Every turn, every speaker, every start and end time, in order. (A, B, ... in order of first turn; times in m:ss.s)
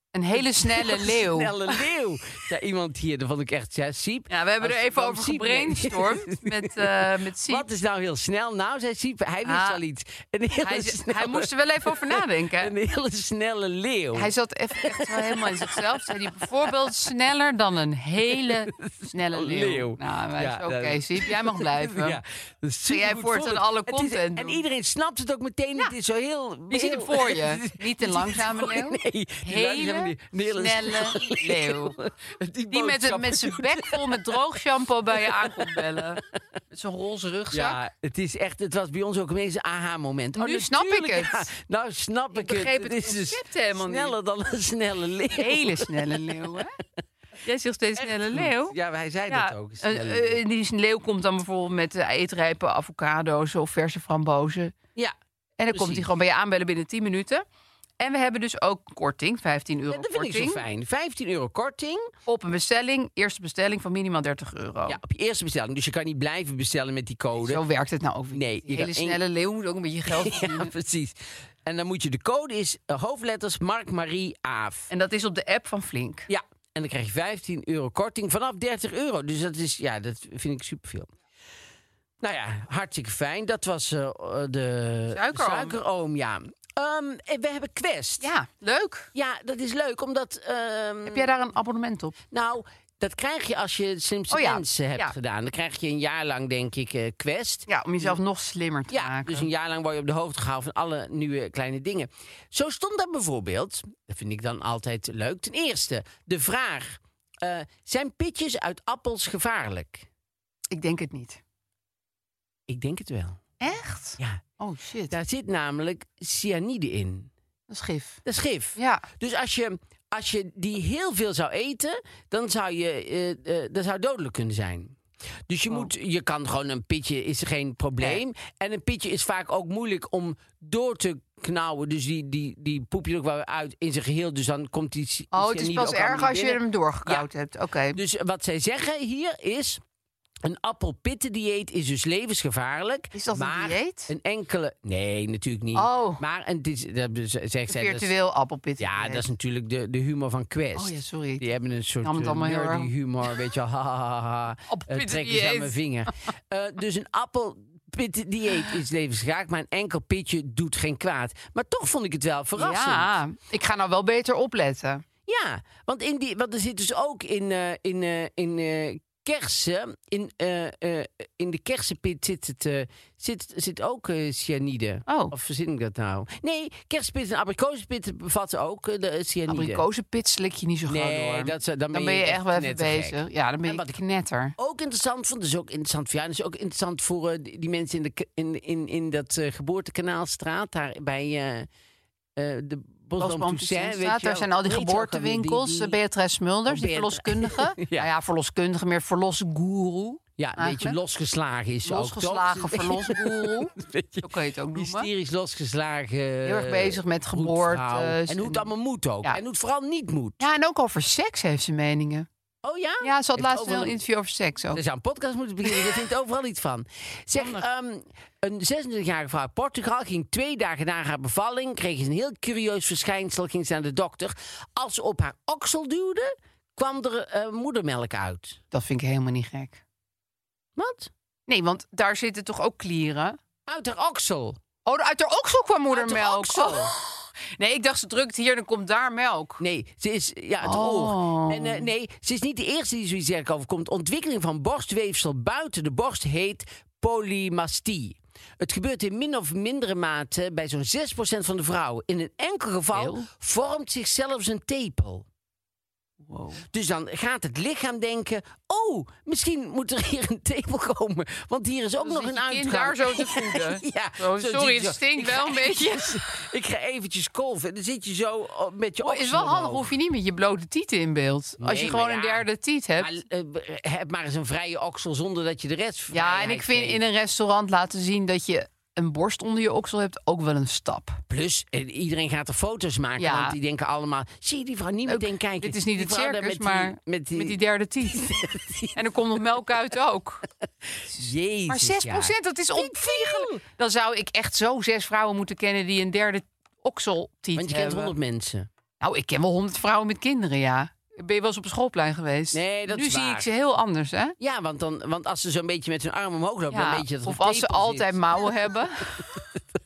0:00.1-0:01.8 A
0:00.3-0:16.9 B
0:04.3-0:07.7 A
0:09.4-0:09.8 A
0:10.6-0:12.7 A
0:14.1-0:22.2 A
0:18.3-0:34.6 B
0:22.9-0:24.6 A
0:26.7-0:32.0 A
0:32.7-0:37.8 A
0:35.1-0:36.3 B
0:37.5-0:46.2 B
0:40.4-0:41.5 A
0:42.3-0:44.1 A
0:45.4-0:46.7 A
0:47.4-0:48.7 A
0:48.0-0:50.4 B
0:49.3-0:54.7 A
0:55.6-0:57.4 A
0:55.7-0:56.1 B
0:58.0-1:00.6 A
0:59.9-1:02.1 B
1:02.2-1:05.0 A
1:04.9-1:07.6 B
1:07.4-1:10.7 A
1:08.3-1:09.2 B
1:10.1-1:14.9 B
1:14.9-1:16.3 A
1:16.3-1:21.1 B
1:22.2-1:28.3 B
1:25.1-1:25.8 A
1:28.2-1:29.1 A
1:29.1-1:31.3 B
1:31.0-1:32.2 A
1:32.3-1:38.2 B
1:34.3-1:35.1 A
1:37.7-1:39.5 A
1:38.9-1:50.1 B
1:50.7-1:51.4 A
1:52.7-1:53.4 B
1:53.6-1:55.1 A
1:55.1-1:57.3 B
1:57.7-1:58.2 A
1:58.2-2:05.0 B
1:58.8-1:59.0 A
2:05.5-2:17.2 B
2:15.3-2:18.0 A
2:17.9-2:19.8 B
2:20.4-2:28.1 B
2:23.1-2:24.1 A
2:25.7-2:26.2 A
2:27.7-2:29.2 A
2:28.8-2:43.1 B
2:30.8-2:31.4 A
2:32.0-2:32.9 A
2:34.7-2:35.8 A
2:42.6-2:45.0 A
2:45.3-2:59.8 B
2:55.1-2:55.3 A
2:59.5-3:04.5 A
3:00.9-3:04.0 B
3:04.6-3:11.7 B
3:12.4-3:16.0 B
3:13.2-3:21.0 A
3:16.7-3:18.1 B
3:20.4-3:30.4 B
3:21.8-3:25.1 A
3:26.4-3:28.7 A
3:30.4-3:32.3 A
3:32.6-3:34.0 B
3:33.0-3:34.8 A
3:34.7-3:48.6 B
3:35.6-3:36.0 A
3:37.3-3:37.6 A
3:48.7-3:49.8 A
3:50.8-3:51.1 B
3:51.5-3:53.4 A
3:53.7-3:54.6 B
3:54.8-3:59.6 A
3:55.9-3:56.9 B
3:59.6-4:15.2 B
4:00.6-4:01.9 A
4:12.9-4:13.3 A
4:16.2-4:16.6 A
4:16.7-4:29.9 B
4:22.0-4:26.4 A
4:29.0-4:33.1 A
4:31.6-4:32.5 B
4:33.0-4:37.0 B
4:36.1-4:41.2 A
4:41.3-4:47.6 B
4:43.2-4:43.6 A
4:45.1-4:48.4 A
4:48.1-4:49.0 B
4:48.9-4:50.4 A
4:50.8-4:53.6 B
4:51.2-4:58.1 A
4:57.6-4:58.7 B
4:59.0-5:04.3 A
5:02.5-5:03.4 B
5:04.4-5:08.5 B
5:06.7-5:09.3 A
5:09.2-5:09.4 B